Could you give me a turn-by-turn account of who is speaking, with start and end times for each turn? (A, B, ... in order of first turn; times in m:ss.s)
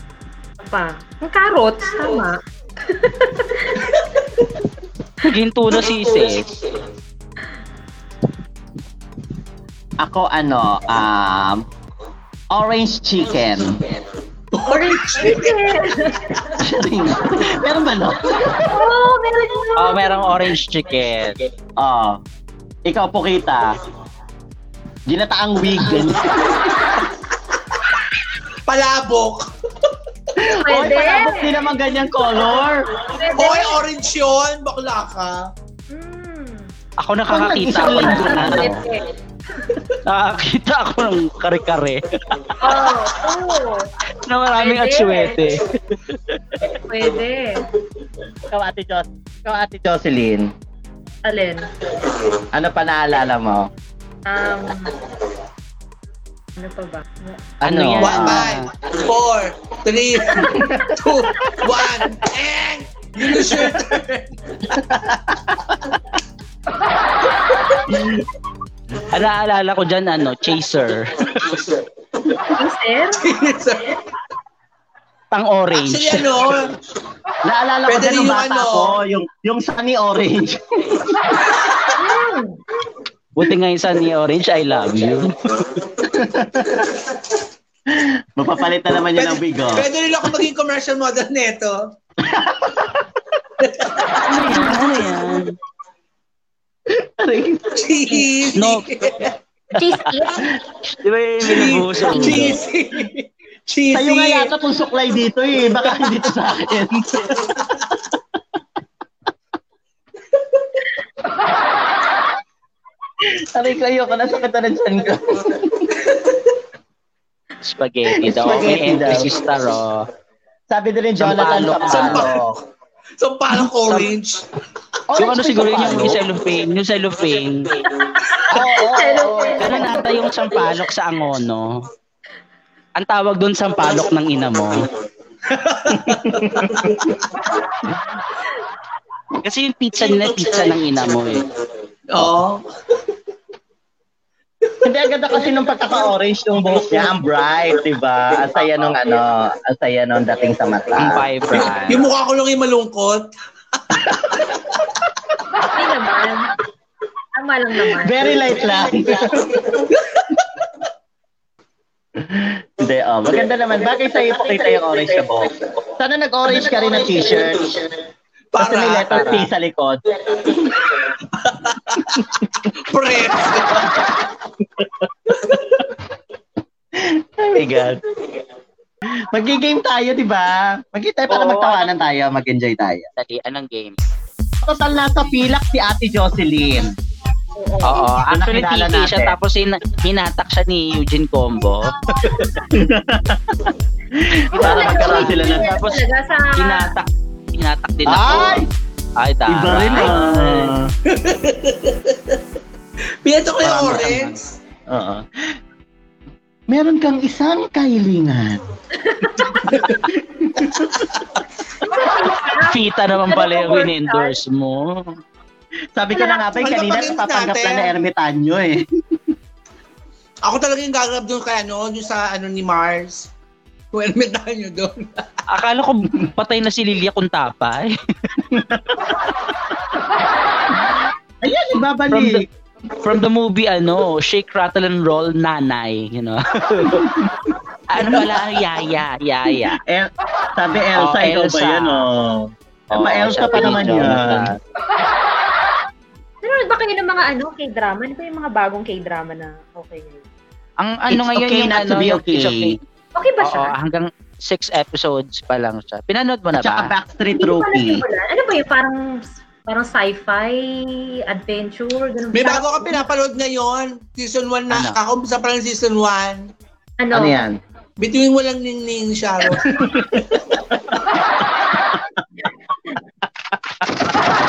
0:00.6-0:04.0 A
0:05.2-0:06.6 B
0:10.0-0:11.6 C
0:12.5-0:13.9 C
0:14.5-0:16.1 D
0:14.6-0:16.5 A
0:16.6-0:18.9 C
0:18.6-0:20.5 A
0:19.8-0:21.4 B
0:21.8-0:22.2 C
0:22.9-0:23.7 C
0:25.1-0:26.6 C
0:28.7-0:29.5 D
0:30.4-0:32.8 C
0:30.5-0:31.8 A
0:33.0-0:33.8 A
0:33.4-0:35.5 D
0:35.9-0:36.7 A
0:37.0-0:38.8 B
0:37.3-0:38.8 C
0:37.9-0:39.1 A
0:40.1-0:42.9 B
0:42.6-0:43.9 A
0:44.1-0:46.4 B
0:44.5-0:45.6 A
0:46.7-0:47.6 A
0:48.5-0:50.5 C
0:51.2-0:51.6 A
0:52.4-0:53.7 C
0:54.3-0:55.0 A
0:56.6-0:57.4 A
0:57.6-0:58.5 C
0:57.6-0:58.7 B
0:58.0-1:04.8 D
1:00.3-1:00.9 C
1:00.5-1:00.9 A
1:01.5-1:02.0 C
1:03.3-1:03.8 C
1:04.7-1:06.0 C
1:07.9-1:08.2 C
1:09.1-1:11.2 B
1:11.4-1:11.6 D
1:12.5-1:13.2 A
1:13.2-1:14.0 D
1:15.3-1:16.4 B
1:15.8-1:16.7 D
1:17.4-1:21.4 C
1:17.9-1:19.0 D
1:21.9-1:22.6 A
1:23.4-1:25.8 B
1:25.9-1:27.4 C
1:27.9-1:29.9 C
1:29.2-1:31.9 D
1:32.2-1:33.1 C
1:33.6-1:34.2 D
1:34.2-1:35.6 B
1:34.3-1:34.9 A
1:36.9-1:37.8 C
1:37.8-1:39.4 D
1:38.6-1:38.8 B
1:39.7-1:40.4 A
1:40.9-1:42.6 B
1:41.4-1:44.5 D
1:42.1-1:42.4 C
1:43.9-1:47.8 C
1:53.2-1:56.1 C
1:57.6-2:00.1 B
1:58.1-1:59.3 C
2:00.7-2:02.6 C
2:01.2-2:02.3 B
2:01.8-2:02.5 D
2:03.2-2:04.4 D
2:03.8-2:04.1 B
2:05.1-2:06.2 C
2:05.2-2:07.8 B
2:08.4-2:10.1 A
2:08.5-2:10.1 C
2:09.6-2:11.8 B
2:13.0-2:14.9 B
2:15.5-2:17.2 D
2:15.9-2:17.1 C
2:17.9-2:18.2 C
2:19.4-2:21.5 B
2:22.1-2:22.6 D
2:24.8-2:31.3 C
2:30.9-2:32.1 B
2:31.5-2:33.3 D
2:33.9-2:34.4 C
2:33.9-2:34.6 D
2:35.7-2:36.5 A
2:37.4-2:38.5 A
2:37.9-2:39.8 C
2:39.9-2:40.2 D
2:42.2-2:47.8 C
2:48.5-2:49.4 D
2:48.6-2:50.8 C
2:49.1-2:49.5 B
2:51.3-2:54.1 D
2:52.0-2:52.4 C
2:54.6-2:55.0 C
2:55.3-2:55.8 D
2:57.0-2:58.0 C
2:59.0-3:03.1 C
3:01.3-3:01.9 B
3:03.2-3:04.0 B
3:04.6-3:06.9 C
3:07.6-3:08.1 A
3:07.8-3:12.1 B
3:08.3-3:09.4 C
3:12.2-3:15.8 C
3:14.5-3:17.0 A
3:14.6-3:16.0 B
3:16.6-3:18.6 B
3:18.1-3:18.7 C
3:19.2-3:20.6 B
3:19.5-3:20.9 C
3:20.1-3:22.4 D
3:23.2-3:24.6 D
3:23.6-3:24.4 C
3:24.9-3:25.3 C
3:26.7-3:28.6 C
3:29.0-3:29.6 A
3:29.7-3:31.1 C
3:31.8-3:34.4 A
3:32.6-3:35.2 B
3:36.0-3:39.2 C
3:36.1-3:36.4 A
3:36.5-3:37.9 D
3:40.4-3:43.3 D
3:43.9-3:45.4 D
3:45.5-3:47.9 B
3:48.5-3:49.4 C
3:51.4-3:52.5 C
3:52.1-3:52.4 B
3:53.0-3:57.2 B
3:56.8-3:58.6 C
3:57.9-3:59.8 B
3:59.7-4:04.5 C
4:01.0-4:02.1 B
4:02.9-4:04.6 B
4:06.4-4:10.2 A
4:10.8-4:12.8 B
4:11.1-4:12.8 C
4:13.2-4:13.8 A
4:13.4-4:16.9 B
4:16.6-4:18.0 C
4:17.4-4:23.0 A
4:22.3-4:26.5 D
4:24.7-4:25.0 B
4:27.0-4:27.4 A
4:27.1-4:27.6 C
4:28.0-4:30.5 D
4:29.7-4:31.1 C